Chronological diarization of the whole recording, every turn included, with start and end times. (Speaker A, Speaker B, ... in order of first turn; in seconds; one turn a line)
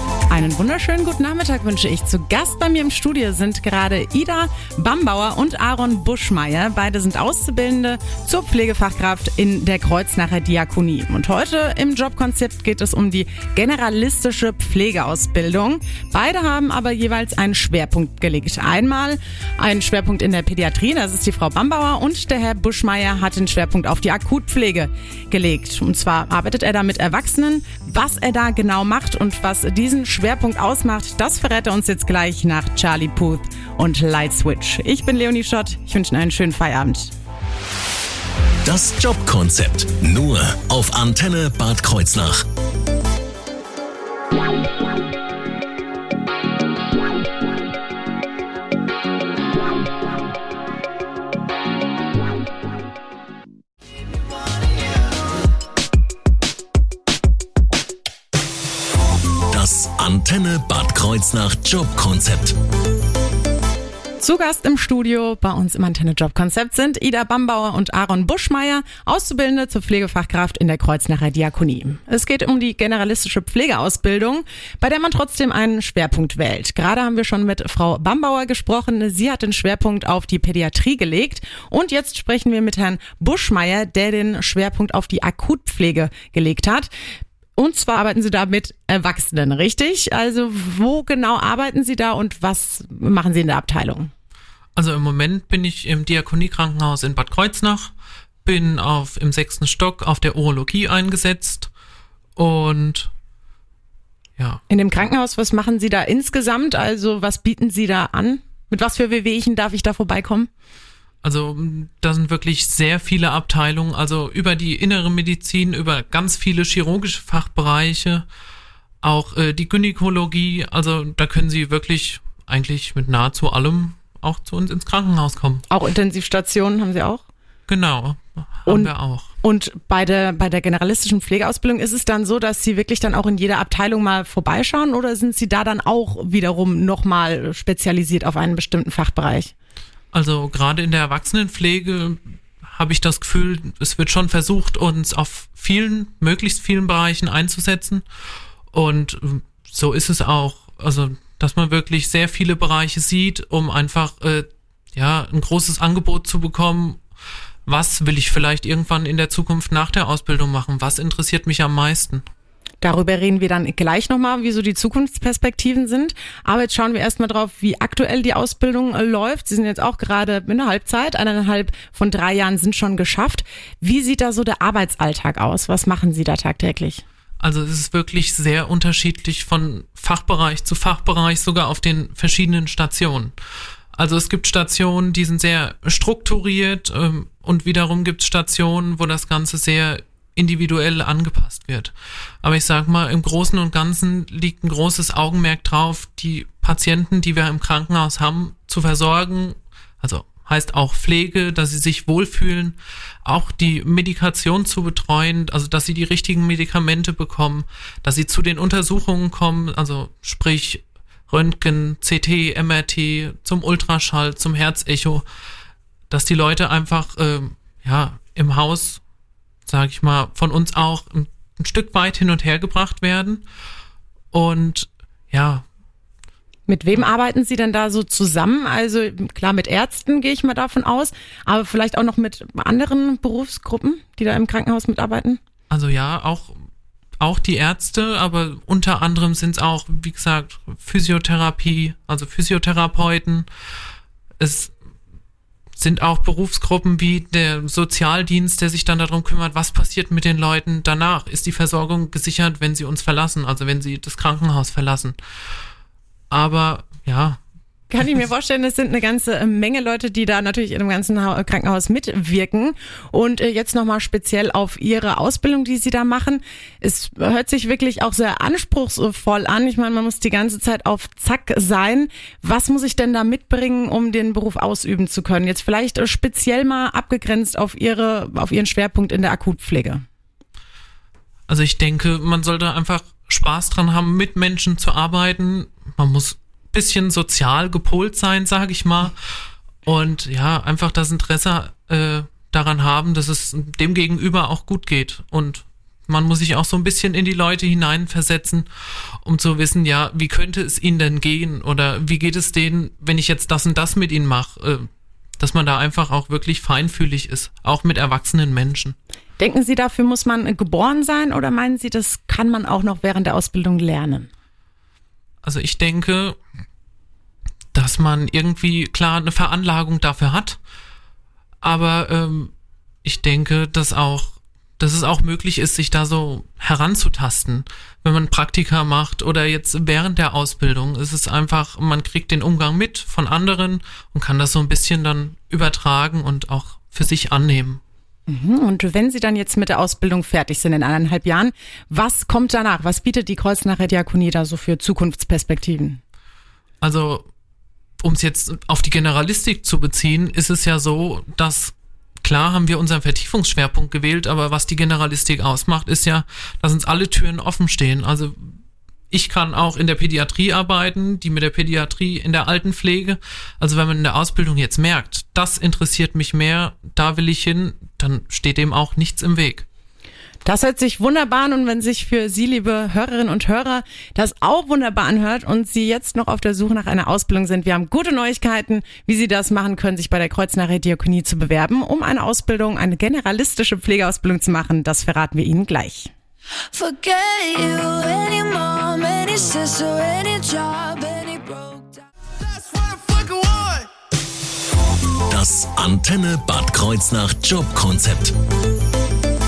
Speaker A: 0.3-37.1
Speaker B: 38.6-42.5
Speaker B: 59.5-62.6
Speaker A: 64.2-86.9
Speaker A: 87.6-94.1
Speaker C: 94.8-97.9
Speaker C: 98.5-101.7
Speaker C: 102.4-103.1
Speaker A: 104.7-110.5
Speaker C: 111.2-118.3
Speaker C: 119.0-125.7
Speaker A: 125.7-127.2
Speaker C: 127.7-129.3
Speaker A: 128.7-139.5
Speaker C: 140.1-148.0
Speaker C: 148.7-157.0
Speaker C: 157.7-162.2
Speaker A: 162.8-177.0
Speaker C: 177.4-183.3
Speaker C: 183.9-215.2
Speaker C: 216.1-219.0
Speaker C: 219.7-223.4
Speaker C: 224.3-225.7
Speaker A: 226.7-235.4
Speaker C: 235.7-236.6
Speaker C: 237.2-243.5
Speaker C: 244.4-244.7
Speaker C: 245.8-255.2
Speaker C: 256.3-257.4
Speaker A: 257.9-280.0
Speaker C: 281.5-289.2
Speaker C: 289.9-304.9
Speaker C: 305.4-309.0
Speaker A: 309.4-314.3
Speaker C: 315.4-316.4
Speaker C: 317.7-320.6
Speaker C: 321.6-322.5
Speaker C: 323.0-337.8
Speaker A: 338.3-346.0
Speaker C: 346.8-347.3
Speaker C: 348.0-358.6
Speaker C: 359.1-369.7
Speaker A: 370.4-386.1
Speaker D: 386.7-392.1
Speaker D: 392.7-393.8
Speaker B: 395.3-398.4